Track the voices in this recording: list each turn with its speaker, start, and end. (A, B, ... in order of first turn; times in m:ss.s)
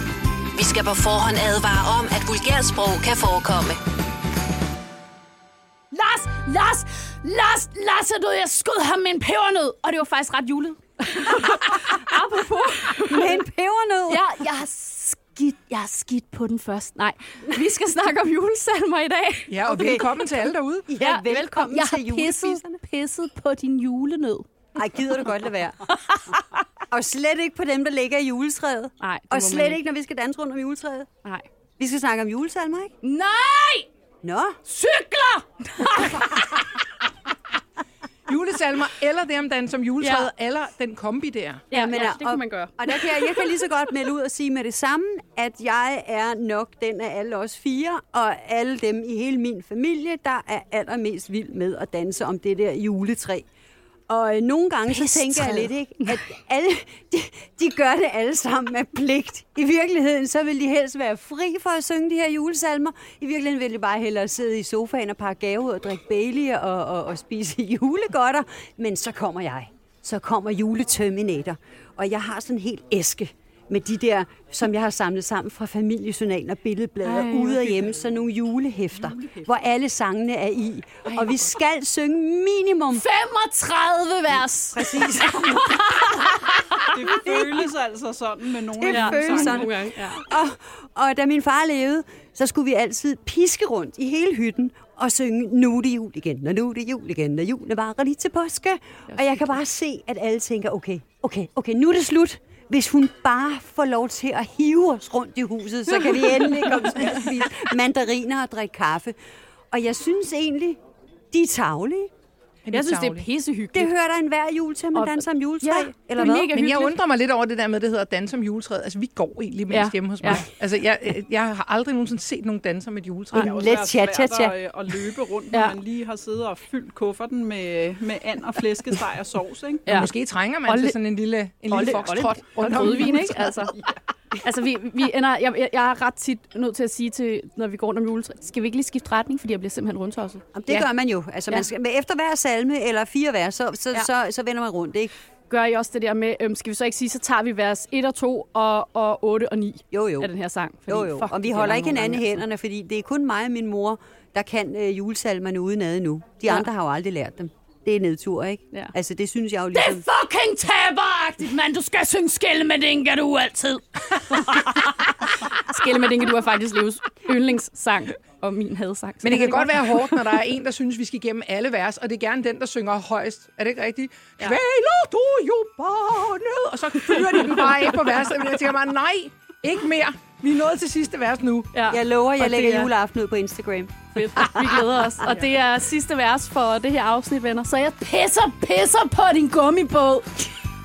0:00.5-0:03.8 A
0:05.9-0:13.4 B
0:13.1-0:14.3 C
0:14.1-0:20.2 B
0:19.5-0:20.9 D
0:20.9-0:22.8 C
0:21.0-0:24.5 B
0:24.7-0:25.8 C
0:26.0-0:26.4 B
0:26.9-0:31.1 C
0:29.0-0:29.8 B
0:31.8-0:32.9 C
0:33.0-0:33.9 B
0:34.2-0:34.6 C
0:34.6-0:36.6 B
0:38.3-0:41.7 D
0:40.0-0:40.3 B
0:41.7-0:43.4 B
0:41.7-0:53.4 C
0:54.1-1:23.0 C
0:54.9-0:55.7 B
1:17.0-1:17.8 B
1:19.0-1:19.5 E
1:21.1-1:21.4 B
1:22.9-1:26.9 B
1:24.7-1:25.8 C
1:26.9-1:29.8 E
1:27.0-1:27.3 C
1:28.8-1:49.2 C
1:28.9-1:30.2 B
1:39.1-1:39.5 B
1:46.2-1:46.9 B
1:49.7-1:50.8 C
1:51.3-1:52.1 C
1:52.6-1:53.3 D
1:52.7-1:53.9 B
1:53.7-1:56.5 C
1:54.9-1:57.0 B
1:56.5-2:03.5 D
1:59.7-2:00.4 B
2:03.3-2:04.6 C
2:03.4-2:09.9 E
2:09.8-2:13.7 D
2:10.6-2:11.0 B
2:11.7-2:13.8 B
2:14.4-2:20.9 B
2:20.5-2:25.1 C
2:25.5-2:32.4 B
2:29.9-2:30.3 C
2:30.9-2:40.0 C
2:39.7-2:50.2 B
2:49.2-3:01.7 D
3:01.7-3:02.9 B
3:01.9-3:05.2 C
3:04.1-3:10.4 B